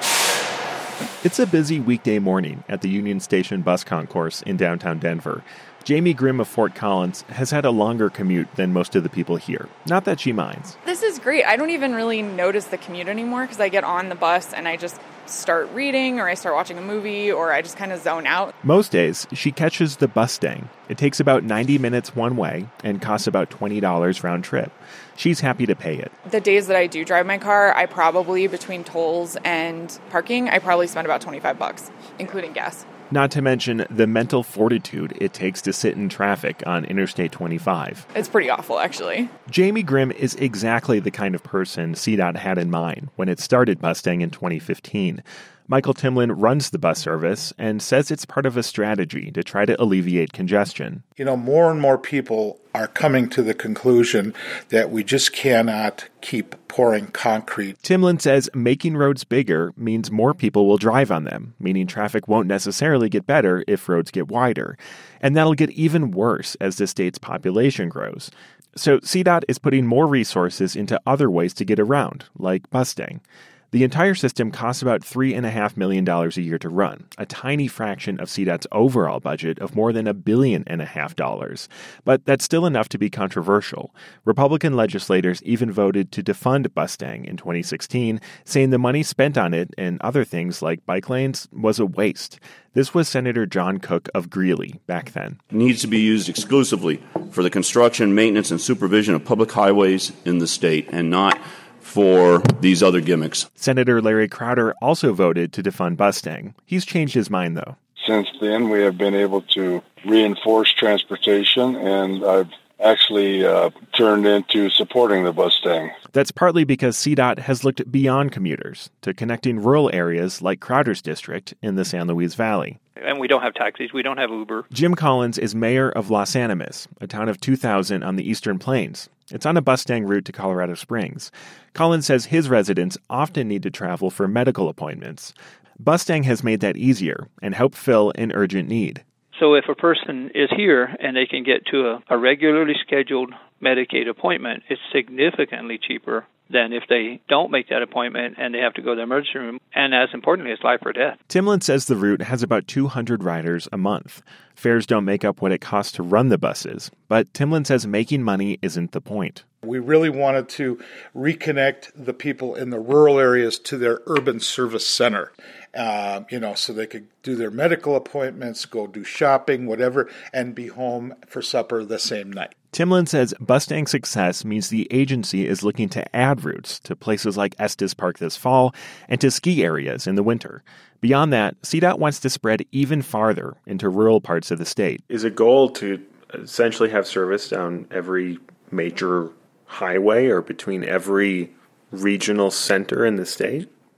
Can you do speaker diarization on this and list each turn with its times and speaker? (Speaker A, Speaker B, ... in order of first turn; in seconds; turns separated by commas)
Speaker A: 1.2-10.8, Speaker B: 10.8-18.5, Speaker A: 18.6-26.1, Speaker B: 26.2-32.9, Speaker A: 33.1-38.1, Speaker B: 38.1-39.3, Speaker A: 39.5-51.0, Speaker C: 51.2-57.8, Speaker A: 57.8-95.4, Speaker D: 95.5-103.5, Speaker A: 103.6-107.8, Speaker E: 108.0-115.9, Speaker A: 116.1-122.8, Speaker F: 123.0-124.7, Speaker A: 124.7-139.0, Speaker F: 139.3-151.2, Speaker A: 151.3-159.4, Speaker C: 159.6-172.5, Speaker A: 172.7-185.0, Speaker G: 185.1-193.7